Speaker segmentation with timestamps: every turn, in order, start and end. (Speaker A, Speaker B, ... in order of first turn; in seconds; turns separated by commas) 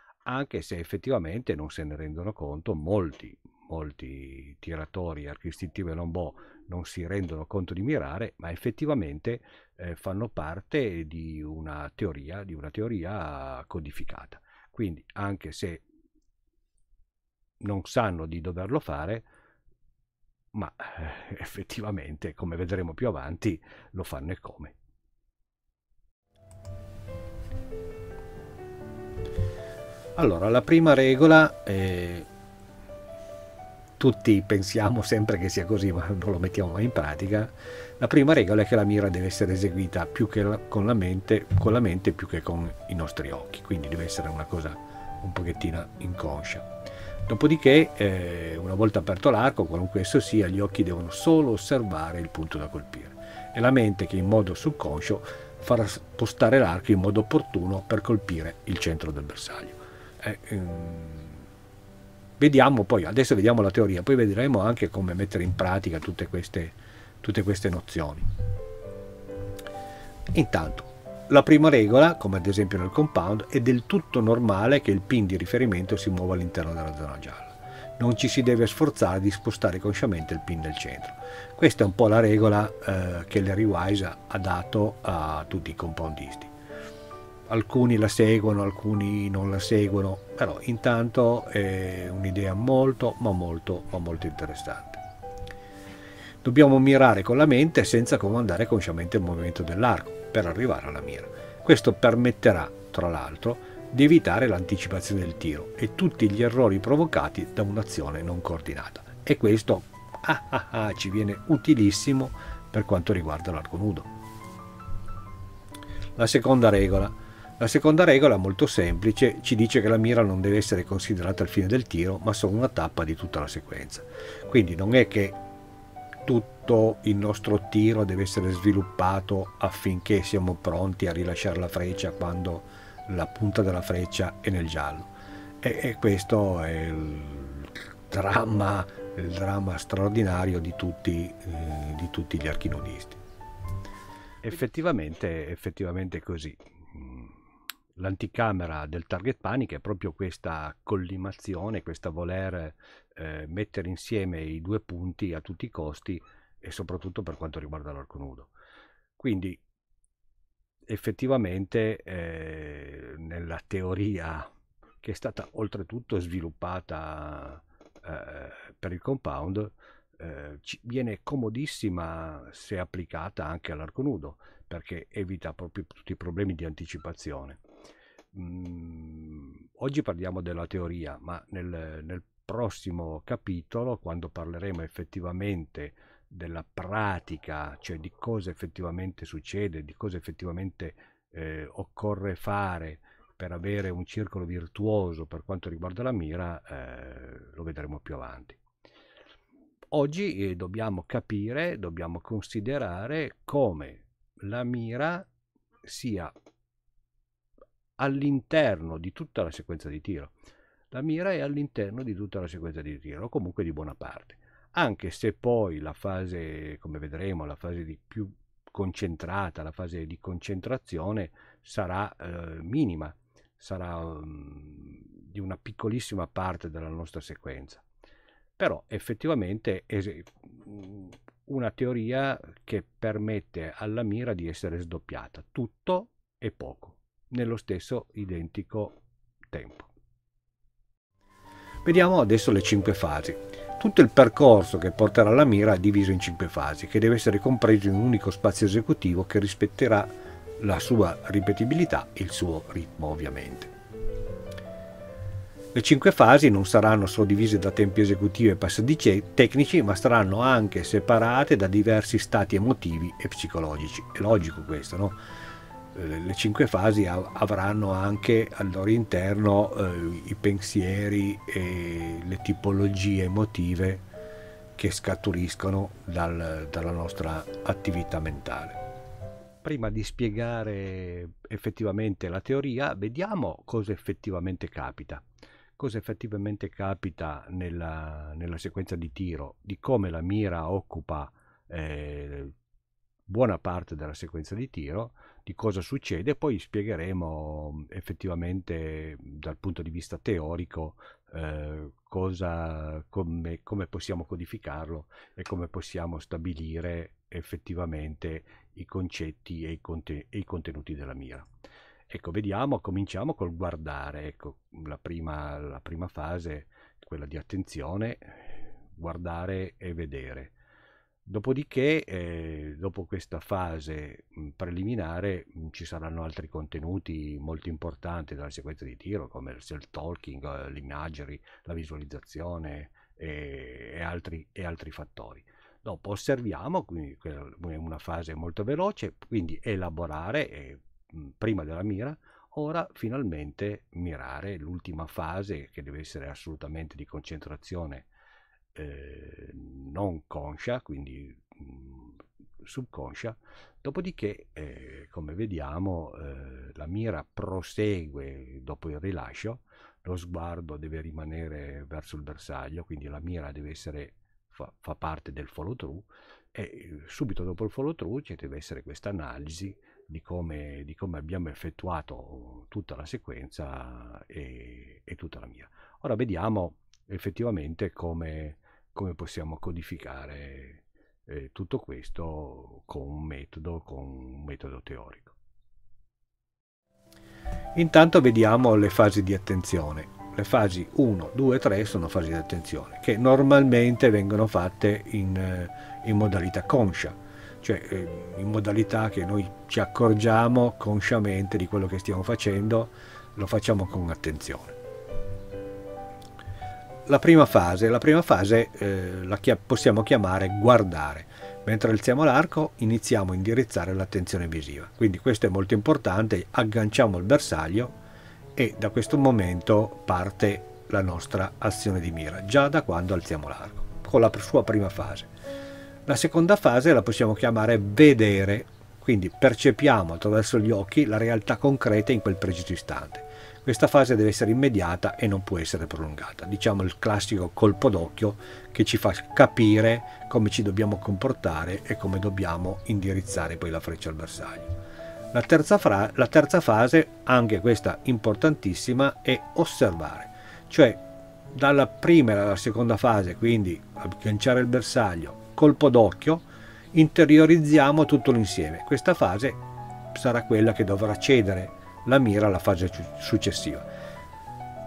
Speaker A: 0.2-15.8, Speaker A: 17.6-19.3, Speaker A: 20.5-24.8, Speaker A: 30.1-32.3, Speaker A: 34.0-46.7, Speaker A: 47.3-61.4, Speaker A: 62.4-68.3, Speaker A: 70.3-86.5, Speaker A: 87.5-95.0, Speaker A: 96.4-114.1, Speaker A: 116.2-125.4, Speaker A: 126.2-143.2, Speaker A: 144.4-147.4, Speaker A: 147.9-158.5, Speaker A: 159.2-159.6, Speaker A: 160.9-164.5, Speaker A: 165.0-177.6, Speaker A: 178.3-198.6, Speaker A: 199.9-205.3, Speaker A: 205.8-206.3, Speaker A: 208.0-210.3, Speaker A: 210.9-227.8, Speaker A: 228.6-239.9, Speaker A: 241.8-253.7, Speaker A: 255.7-265.2, Speaker A: 265.9-274.0, Speaker A: 274.8-278.8, Speaker A: 279.6-285.2, Speaker A: 285.8-292.5, Speaker A: 293.3-311.5, Speaker A: 312.1-320.5, Speaker A: 321.2-348.1, Speaker A: 348.8-385.4, Speaker A: 387.8-404.8, Speaker A: 407.1-417.9, Speaker A: 418.6-425.3, Speaker A: 426.1-444.7, Speaker A: 445.3-451.0, Speaker A: 451.5-459.6, Speaker A: 460.1-463.9